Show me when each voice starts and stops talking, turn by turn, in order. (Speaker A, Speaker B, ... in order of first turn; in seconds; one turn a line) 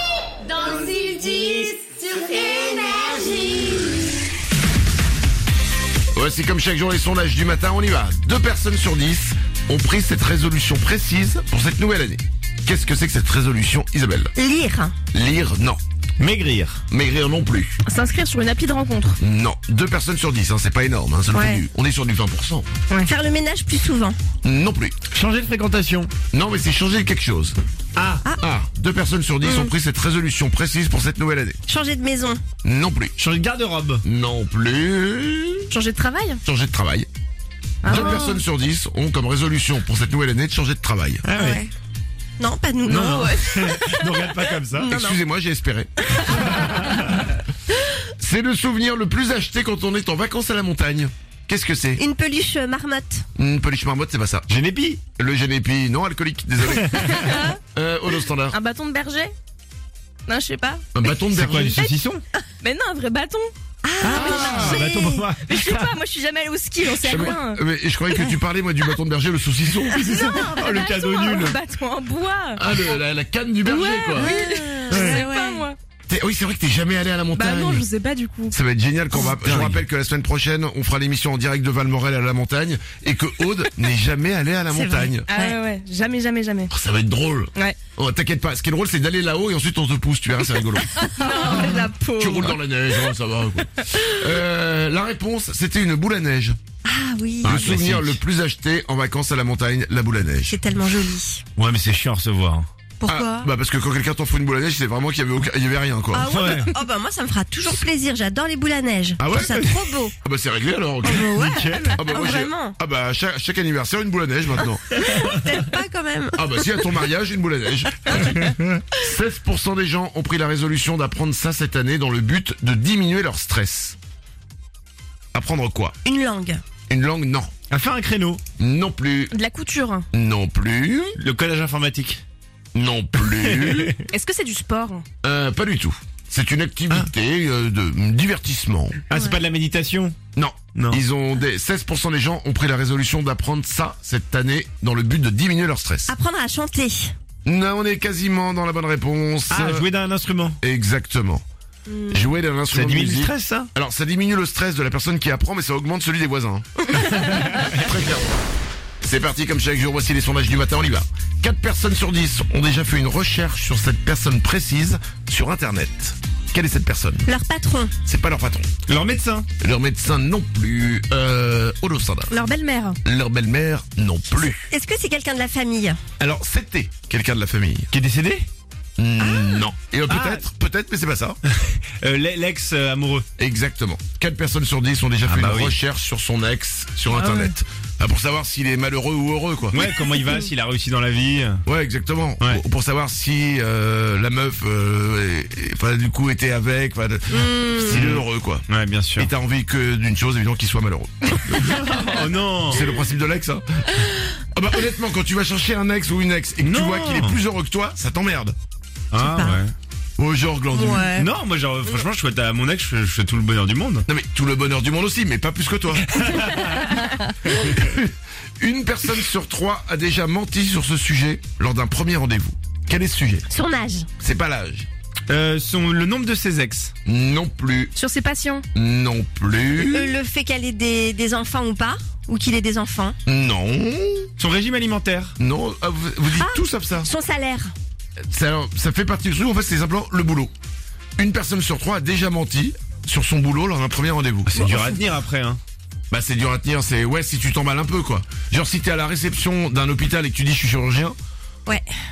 Speaker A: 0.4-3.8
Speaker B: 6.1-14.3
Speaker C: 14.3-14.9
Speaker B: 15.1-15.8
Speaker D: 16.2-16.8
Speaker B: 16.9-17.8
Speaker E: 17.8-19.2
Speaker B: 19.2-22.7
Speaker C: 21.3-21.6
Speaker C: 23.0-24.2
Speaker B: 24.4-25.0
Speaker D: 25.1-26.1
Speaker B: 26.3-27.6
Speaker D: 27.9-28.2
Speaker B: 28.4-31.6
Speaker C: 31.6-32.4
Speaker B: 32.6-33.1
Speaker D: 33.2-34.0
Speaker B: 34.0-35.7
Speaker E: 35.7-36.4
Speaker B: 36.4-37.1
Speaker E: 37.8-38.4
Speaker B: 37.8-41.2
Speaker D: 41.2-41.6
Speaker C: 41.3-41.7
Speaker C: 42.4-45.2
Speaker D: 42.9-44.9
Speaker B: 44.9-46.5
Speaker C: 46.0-46.8
Speaker B: 48.2-52.0
Speaker C: 52.0-53.2
Speaker B: 53.4-54.5
Speaker D: 54.5-55.0
Speaker B: 55.2-58.6
Speaker C: 57.1-57.5
Speaker E: 58.5-59.3
Speaker E: 60.3-60.9
Speaker B: 60.9-61.8
Speaker D: 61.3-62.2
Speaker C: 61.5-61.9
Speaker E: 62.6-63.5
Speaker C: 63.8-65.2
Speaker D: 64.0-65.9
Speaker B: 64.1-64.8
Speaker E: 64.1-67.6
Speaker B: 67.0-70.4
Speaker E: 70.0-72.6
Speaker D: 70.3-71.6
Speaker B: 72.6-74.4
Speaker E: 73.6-75.8
Speaker C: 74.1-75.6
Speaker D: 74.9-75.2
Speaker B: 76.1-77.8
Speaker E: 77.3-78.5
Speaker B: 78.5-85.3
Speaker D: 79.4-79.8
Speaker C: 84.7-85.6
Speaker E: 85.3-86.7
Speaker B: 86.7-91.5
Speaker C: 91.0-92.6
Speaker E: 91.1-91.8
Speaker B: 92.2-96.6
Speaker C: 96.8-97.7
Speaker D: 97.4-98.2
Speaker B: 97.4-100.6
Speaker C: 100.5-101.4
Speaker D: 101.6-102.7
Speaker C: 103.0-103.5
Speaker B: 103.0-106.3
Speaker C: 106.1-110.1
Speaker D: 106.3-106.7
Speaker B: 109.2-109.6
Speaker B: 110.2-111.3
Speaker C: 111.0-112.8
Speaker D: 111.4-112.0
Speaker B: 112.0-114.9
Speaker C: 114.9-116.8
Speaker B: 116.3-124.0
Speaker B: 125.3-126.0
Speaker C: 126.0-126.6
Speaker B: 126.9-127.5
Speaker D: 127.7-128.4
Speaker B: 128.6-129.3
Speaker E: 129.3-130.1
Speaker B: 130.1-131.2
Speaker D: 131.2-132.2
Speaker B: 132.7-133.9
Speaker D: 133.2-134.0
Speaker E: 134.1-135.0
Speaker B: 135.2-139.0
Speaker D: 139.1-140.2
Speaker C: 139.1-139.4
Speaker B: 140.3-146.1
Speaker D: 140.7-141.0
Speaker C: 146.1-147.1
Speaker B: 147.4-149.9
Speaker D: 149.5-150.6
Speaker B: 150.6-151.4
Speaker C: 151.9-152.3
Speaker B: 152.1-158.3
Speaker D: 152.7-153.7
Speaker B: 159.0-167.3
Speaker C: 167.2-167.9
Speaker B: 168.1-168.7
Speaker D: 168.9-169.5
Speaker B: 169.6-172.3
Speaker E: 172.3-173.0
Speaker B: 173.0-174.7
Speaker C: 174.7-176.0
Speaker B: 176.2-177.9
Speaker D: 177.9-178.5
Speaker B: 179.0-181.4
Speaker C: 179.2-179.7
Speaker D: 180.1-180.4
Speaker D: 181.4-183.3
Speaker B: 183.4-189.8
Speaker D: 185.2-185.8
Speaker D: 189.7-191.6
Speaker B: 191.7-198.6
Speaker C: 197.3-198.1
Speaker D: 197.9-199.3
Speaker B: 199.2-201.9
Speaker D: 201.7-202.8
Speaker B: 202.7-203.9
Speaker B: 204.5-208.5
Speaker D: 206.6-207.4
Speaker D: 209.1-209.7
Speaker C: 209.2-209.6
Speaker B: 210.2-211.1
Speaker C: 210.7-211.3
Speaker D: 211.2-214.1
Speaker B: 214.1-216.2
Speaker D: 216.0-216.8
Speaker B: 217.4-223.5
Speaker C: 223.5-224.1
Speaker B: 224.2-224.9
Speaker D: 225.3-226.9
Speaker B: 227.0-227.9
Speaker E: 227.9-228.6
Speaker B: 228.7-230.2
Speaker C: 229.8-233.2
Speaker B: 233.2-234.3
Speaker D: 234.4-235.3
Speaker B: 235.4-237.1
Speaker C: 236.3-237.7
Speaker B: 238.3-240.5
Speaker B: 241.2-244.8
Speaker D: 244.5-245.6
Speaker C: 244.6-244.9
Speaker B: 246.1-251.2